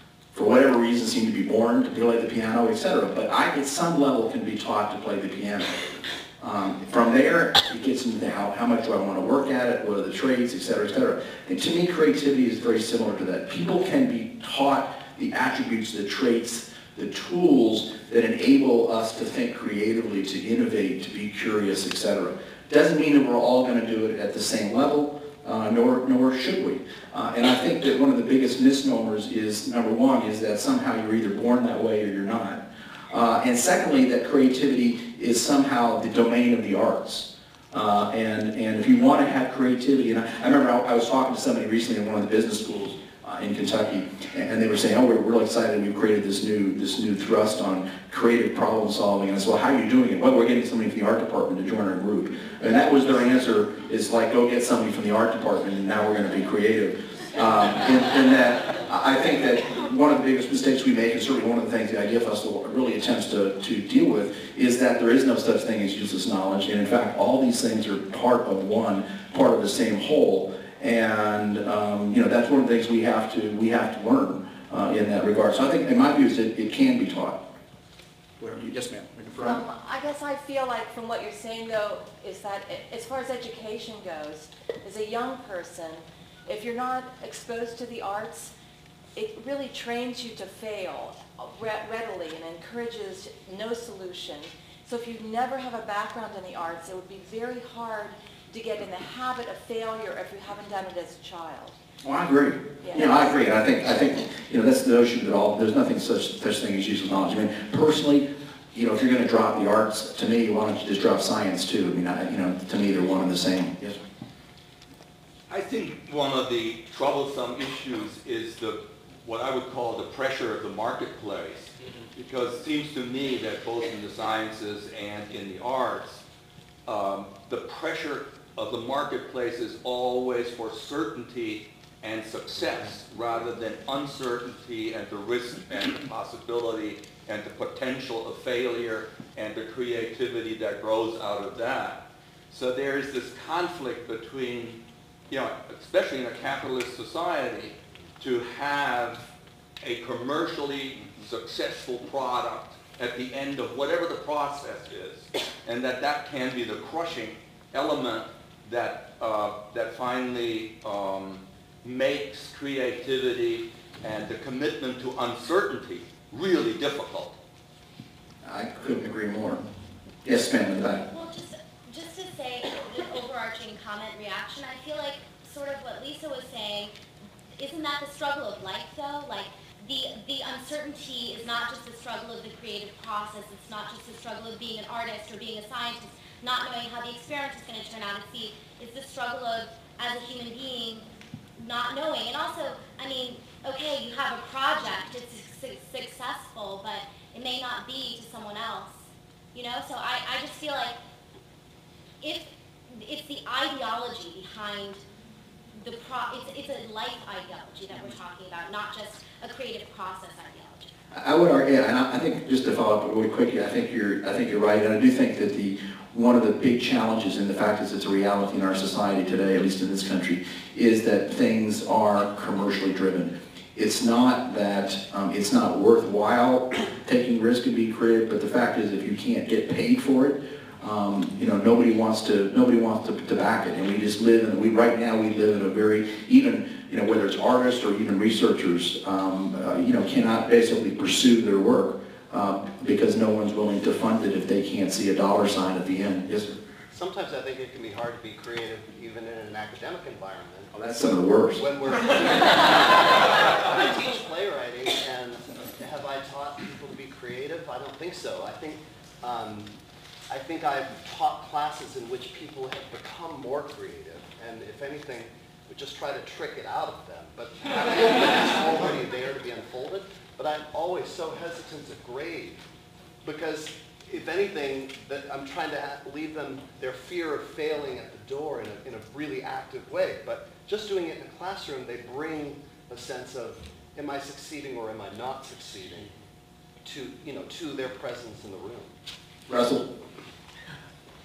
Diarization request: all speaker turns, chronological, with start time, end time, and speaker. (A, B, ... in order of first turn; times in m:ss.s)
0:00.3-1:17.4 A
1:18.4-1:19.6 A
1:19.4-1:28.5 B
1:29.1-1:41.8 B
1:42.0-1:54.0 A
1:42.8-1:43.3 B
1:55.5-2:06.2 C
2:06.8-2:47.4 C
2:48.4-2:49.6 A
2:50.2-2:51.0 A
2:51.1-2:56.9 D
2:57.6-3:21.0 D
3:22.2-3:25.0 D
3:25.8-3:30.9 D
3:31.1-4:06.6 A
4:06.9-4:11.0 E
4:10.8-4:11.6 A
4:11.6-4:19.7 E
4:20.3-4:32.6 E
4:33.2-4:46.1 E
4:46.8-4:48.9 E
4:49.5-4:49.9 A